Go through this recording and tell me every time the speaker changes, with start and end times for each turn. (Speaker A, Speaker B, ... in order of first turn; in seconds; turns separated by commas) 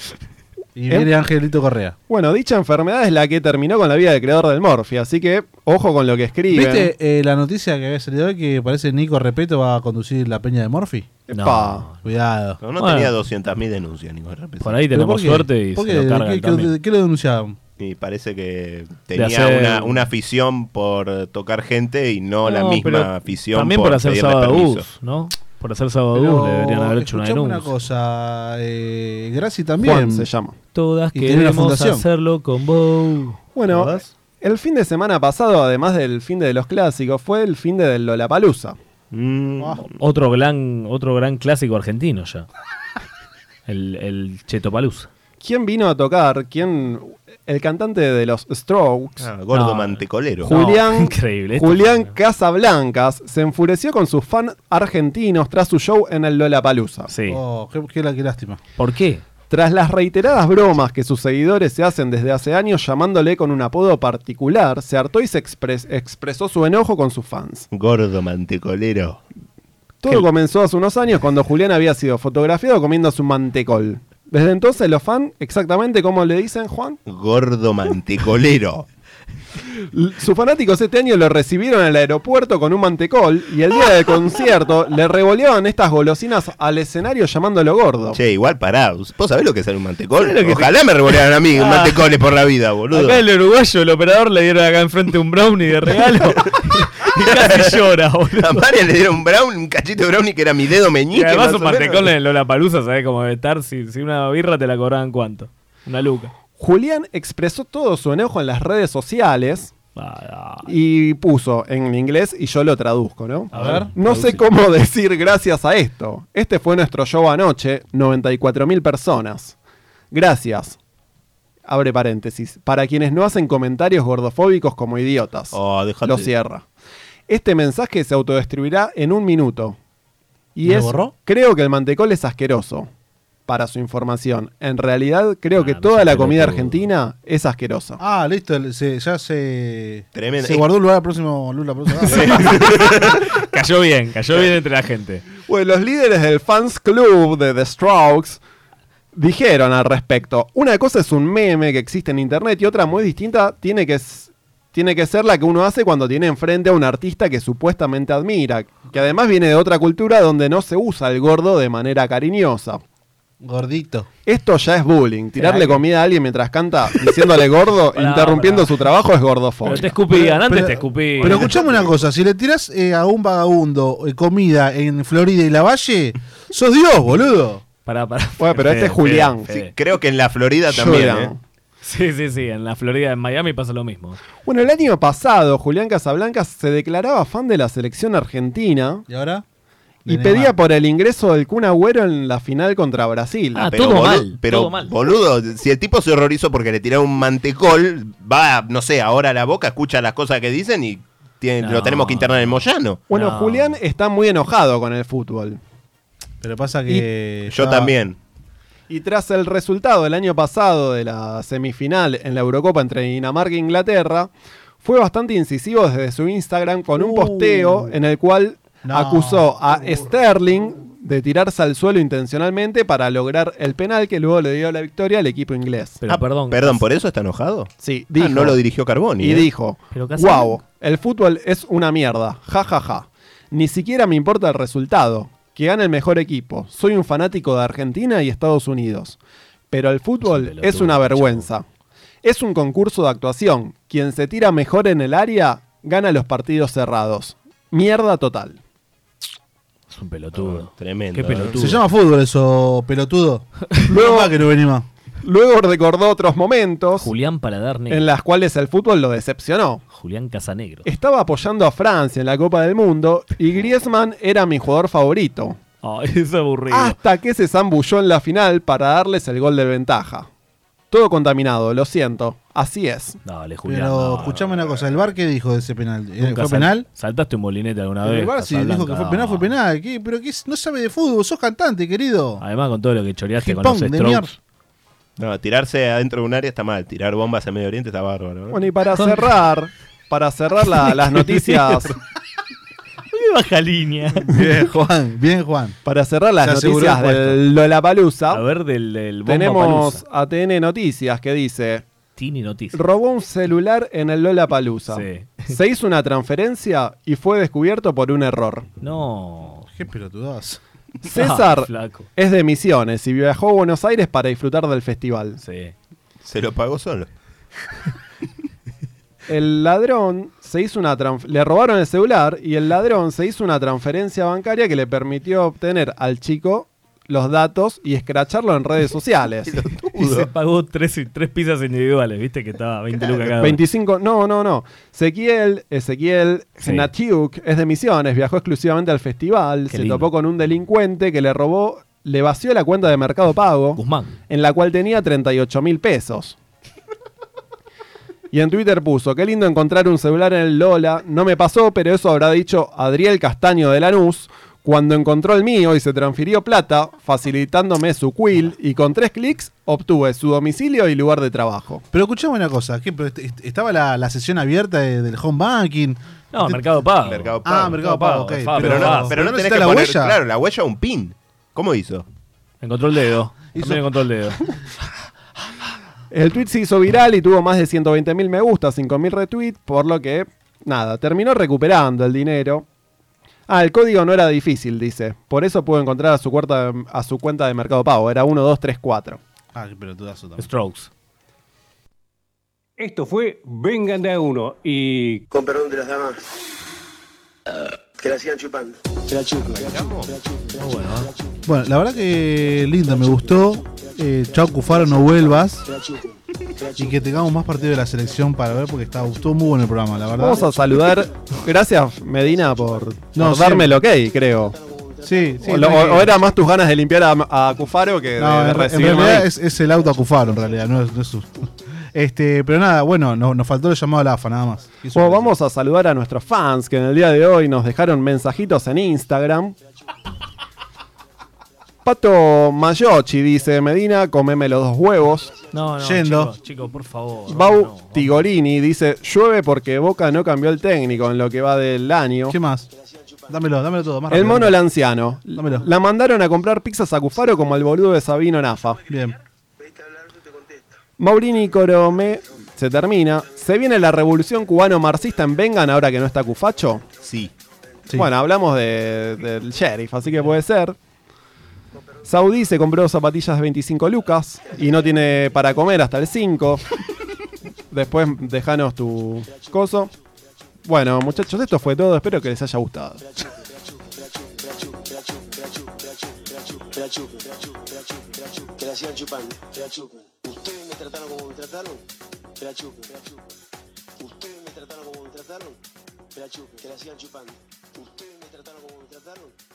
Speaker A: 0.8-2.0, Speaker B: 2.1-6.9, Speaker A: 6.5-11.1, Speaker B: 11.3-11.9, Speaker C: 11.3-12.1, Speaker A: 12.0-12.6, Speaker D: 12.6-14.8, Speaker C: 12.8-13.1, Speaker C: 14.6-16.7, Speaker A: 14.9-17.6, Speaker D: 17.8-24.9, Speaker C: 19.1-20.1, Speaker C: 22.4-27.7, Speaker A: 26.1-30.3, Speaker B: 29.8-30.6, Speaker C: 30.7-34.1, Speaker A: 31.1-32.0, Speaker B: 33.5-38.8, Speaker D: 39.1-39.9, Speaker A: 39.6-39.9, Speaker C: 39.9-42.5, Speaker C: 43.7-45.1, Speaker B: 45.4-49.3, Speaker D: 49.2-50.5, Speaker C: 49.5-52.1, Speaker B: 50.4-57.1, Speaker C: 57.1-57.4, Speaker A: 57.3-58.6, Speaker C: 58.8-59.2, Speaker B: 59.5-67.7, Speaker D: 67.7-69.2, Speaker B: 70.0-77.0, Speaker D: 77.1-78.8, Speaker B: 79.9-88.2, Speaker D: 88.1-93.2, Speaker C: 90.2-92.1, Speaker C: 92.9-98.7, Speaker D: 97.0-97.8, Speaker D: 98.4-102.1, Speaker C: 101.1-106.3, Speaker B: 106.6-109.7, Speaker C: 110.0-110.7, Speaker B: 110.7-119.5, Speaker C: 113.5-114.5, Speaker A: 113.5-113.9, Speaker B: 120.1-120.8, Speaker B: 121.7-126.6, Speaker D: 125.5-126.3, Speaker B: 127.3-129.8, Speaker B: 130.6-132.9, Speaker A: 130.7-131.1, Speaker B: 133.5-138.0, Speaker C: 135.6-136.9, Speaker A: 138.0-142.6, Speaker D: 140.1-140.7, Speaker D: 142.1-143.3, Speaker C: 142.1-145.2, Speaker B: 145.5-148.4, Speaker B: 149.2-162.8, Speaker A: 163.4-164.1, Speaker B: 164.3-170.6, Speaker C: 165.4-165.8, Speaker C: 168.0-168.8, Speaker C: 169.6-171.6, Speaker A: 170.4-177.6, Speaker B: 171.2-171.6, Speaker C: 177.9-179.7, Speaker B: 178.4-179.5, Speaker D: 179.5-181.3, Speaker B: 180.7-181.4, Speaker C: 181.8-184.2, Speaker B: 184.4-189.1, Speaker A: 189.1-189.4, Speaker A: 190.1-190.6, Speaker B: 190.1-193.6, Speaker C: 193.6-194.9, Speaker D: 193.6-203.0, Speaker C: 201.6-203.8, Speaker B: 203.1-205.6, Speaker A: 206.4-207.9, Speaker D: 207.5-208.2, Speaker B: 208.9-214.3, Speaker B: 214.8-226.0, Speaker A: 217.0-218.0, Speaker A: 218.8-219.5, Speaker C: 226.0-226.8, Speaker D: 226.1-229.5, Speaker B: 227.8-228.6, Speaker B: 229.2-239.2, Speaker C: 229.9-230.6, Speaker B: 239.7-241.7, Speaker C: 240.2-241.5, Speaker B: 242.2-248.6, Speaker C: 249.9-251.8, Speaker D: 250.4-251.7, Speaker A: 251.6-254.9, Speaker B: 253.9-254.3, Speaker B: 255.2-257.1, Speaker C: 257.0-258.1, Speaker B: 257.9-259.8, Speaker C: 259.9-260.9, Speaker B: 260.9-265.6, Speaker C: 265.8-267.0, Speaker B: 266.7-270.3, Speaker B: 270.9-273.2, Speaker C: 273.2-274.6, Speaker A: 273.6-276.9, Speaker C: 276.2-279.5, Speaker A: 278.0-282.4, Speaker C: 282.4-284.3, Speaker A: 283.4-284.4, Speaker D: 285.2-288.7, Speaker B: 288.5-291.9, Speaker C: 290.9-291.9, Speaker C: 293.1-294.3, Speaker A: 294.3-295.8, Speaker B: 295.9-298.4, Speaker A: 296.4-297.4, Speaker C: 298.3-300.0, Speaker B: 299.3-301.9, Speaker C: 302.2-302.8, Speaker B: 302.7-308.7, Speaker C: 304.9-305.5, Speaker C: 308.8-309.7, Speaker A: 309.7-310.6, Speaker B: 311.1-315.4, Speaker C: 311.1-312.1, Speaker C: 315.4-315.7, Speaker D: 316.2-317.1, Speaker B: 319.3-329.6, Speaker D: 329.5-330.3, Speaker C: 329.9-333.6, Speaker B: 333.2-346.4, Speaker C: 336.6-336.9, Speaker C: 339.7-340.1, Speaker C: 343.8-344.1, Speaker B: 348.3-361.8, Speaker A: 361.9-366.6, Speaker C: 366.3-369.2, Speaker D: 367.0-367.8, Speaker A: 367.4-370.2, Speaker D: 368.6-372.1, Speaker C: 372.6-374.4, Speaker A: 373.5-373.8, Speaker B: 376.1-382.6, Speaker B: 383.5-389.2, Speaker A: 389.5-390.5, Speaker C: 390.4-390.9, Speaker E: 392.8-395.2, Speaker F: 395.3-396.2, Speaker F: 398.0-400.1, Speaker D: 399.4-400.1, Speaker C: 400.6-401.1, Speaker A: 401.5-405.7, Speaker F: 405.7-406.1, Speaker A: 406.8-410.5, Speaker B: 410.2-414.6, Speaker F: 412.6-412.9, Speaker A: 413.1-413.8, Speaker F: 414.5-415.4, Speaker A: 415.0-416.2, Speaker B: 415.4-419.3, Speaker A: 418.2-425.3, Speaker B: 424.9-429.6, Speaker B: 431.9-435.3, Speaker C: 435.5-438.3, Speaker A: 435.8-436.3, Speaker B: 437.3-442.4, Speaker A: 442.3-442.7, Speaker A: 443.3-444.6, Speaker B: 444.1-448.8, Speaker A: 445.4-445.7, Speaker A: 448.9-449.2, Speaker F: 449.6-450.6, Speaker B: 451.0-456.9, Speaker D: 457.0-457.3, Speaker B: 457.9-460.8, Speaker B: 462.0-466.6, Speaker B: 467.7-469.9, Speaker B: 470.7-473.0, Speaker F: 473.0-481.8, Speaker F: 482.4-483.2, Speaker F: 484.0-485.6, Speaker F: 486.1-489.3